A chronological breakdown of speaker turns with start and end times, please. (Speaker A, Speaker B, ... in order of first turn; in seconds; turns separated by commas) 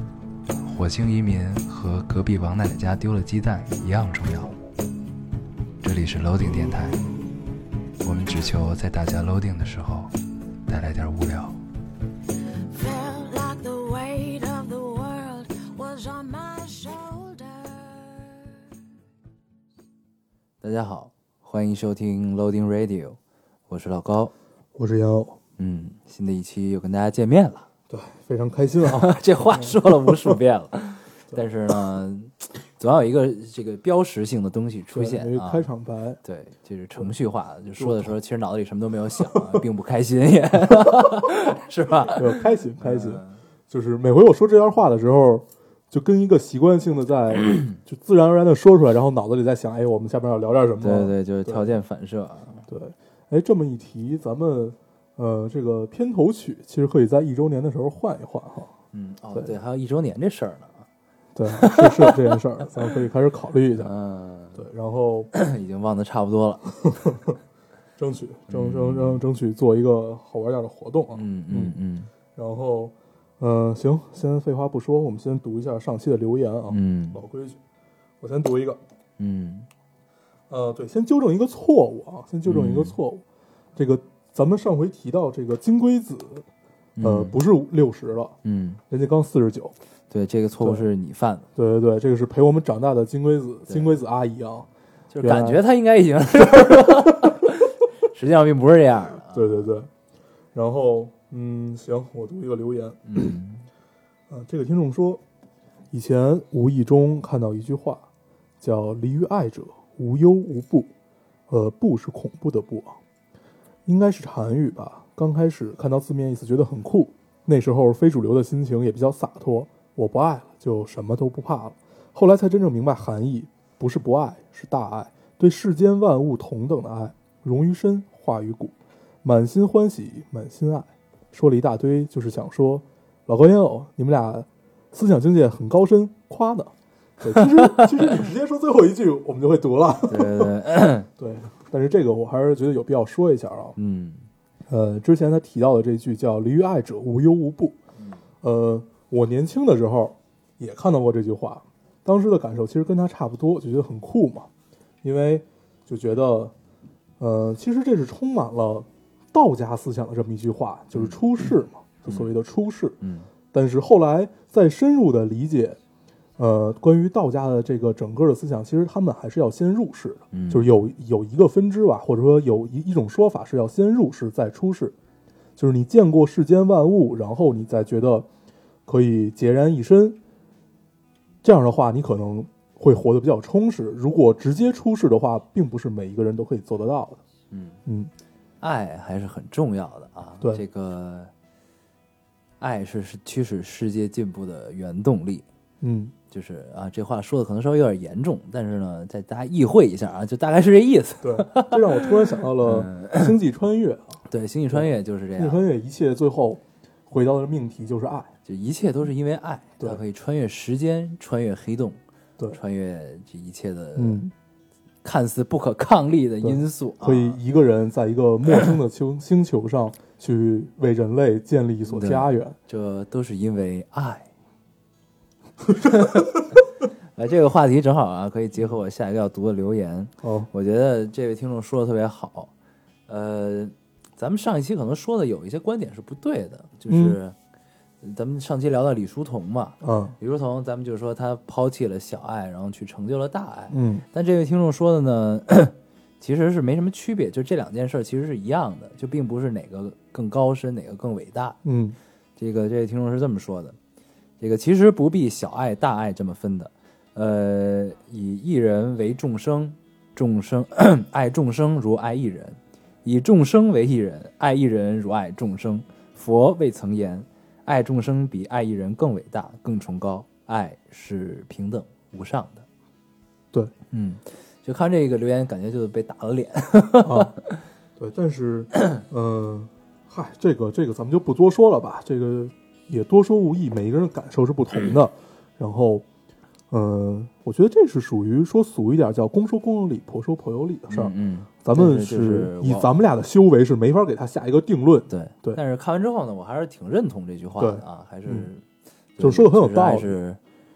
Speaker A: 0.6-4.5, Speaker A: 5.8-7.0, Speaker A: 8.0-10.1, Speaker A: 10.7-11.6, Speaker B: 12.7-18.3, Speaker A: 20.6-23.2, Speaker A: 23.7-24.3, Speaker C: 24.7-25.4, Speaker A: 25.6-27.7, Speaker C: 27.9-30.3, Speaker A: 28.8-35.7, Speaker C: 34.9-36.2, Speaker A: 36.2-43.4, Speaker C: 37.8-38.1, Speaker C: 39.2-39.5, Speaker C: 42.1-51.7, Speaker A: 50.8-52.6, Speaker C: 52.7-58.7, Speaker A: 58.9-60.9, Speaker C: 61.4-63.9, Speaker A: 61.5-62.3, Speaker A: 63.8-64.6, Speaker C: 64.5-65.3, Speaker A: 65.3-66.7, Speaker C: 66.8-67.3, Speaker C: 68.0-71.7, Speaker A: 68.5-69.2, Speaker A: 71.1-72.1, Speaker C: 72.3-77.6, Speaker A: 76.7-77.2, Speaker C: 78.2-78.8, Speaker A: 79.2-79.7, Speaker C: 80.5-83.2, Speaker A: 82.4-83.0, Speaker C: 83.8-86.4, Speaker A: 87.0-87.4, Speaker C: 87.0-88.3, Speaker A: 88.4-88.8, Speaker C: 88.9-89.7, Speaker A: 90.1-91.5, Speaker C: 91.5-94.7, Speaker A: 93.7-93.9, Speaker A: 95.1-99.7, Speaker C: 95.2-95.6, Speaker C: 96.5-97.4, Speaker C: 99.3-99.9, Speaker C: 100.5-103.3, Speaker A: 103.0-103.7, Speaker C: 104.3-105.2, Speaker C: 105.9-108.0, Speaker C: 108.6-110.9, Speaker C: 111.5-113.0, Speaker C: 113.8-140.5, Speaker A: 137.4-137.9, Speaker A: 140.1-141.1, Speaker C: 141.2-143.7, Speaker A: 143.8-144.3, Speaker C: 144.7-147.8, Speaker C: 148.4-154.5, Speaker C: 155.0-156.5, Speaker C: 157.2-163.0, Speaker A: 163.0-163.3, Speaker C: 163.5-165.8, Speaker C: 166.4-174.9, Speaker A: 170.3-170.7, Speaker C: 175.6-178.3, Speaker C: 178.8-180.2, Speaker C: 181.4-187.2, Speaker A: 187.5-187.8, Speaker C: 187.8-188.1, Speaker A: 188.6-191.3, Speaker A: 192.6-195.4, Speaker C: 195.8-196.1, Speaker A: 196.3-203.3, Speaker C: 201.2-204.2, Speaker A: 204.3-205.6, Speaker C: 204.7-208.3, Speaker A: 208.4-212.0, Speaker A: 212.5-214.2, Speaker C: 213.9-214.3, Speaker A: 215.0-217.4, Speaker C: 216.4-222.6, Speaker A: 221.8-224.3, Speaker A: 225.8-226.6, Speaker A: 227.2-232.5, Speaker C: 230.2-230.5, Speaker A: 233.1-237.3, Speaker C: 236.9-237.2, Speaker A: 238.0-251.6, Speaker C: 239.8-240.1, Speaker C: 243.7-244.0, Speaker C: 251.6-252.0, Speaker A: 252.4-253.8, Speaker A: 254.4-272.6, Speaker A: 273.9-277.4, Speaker C: 277.0-277.3, Speaker C: 278.0-286.0, Speaker C: 286.7-295.6, Speaker A: 290.9-292.9, Speaker A: 295.1-298.6, Speaker C: 297.6-298.5, Speaker A: 299.2-300.4, Speaker C: 299.2-300.1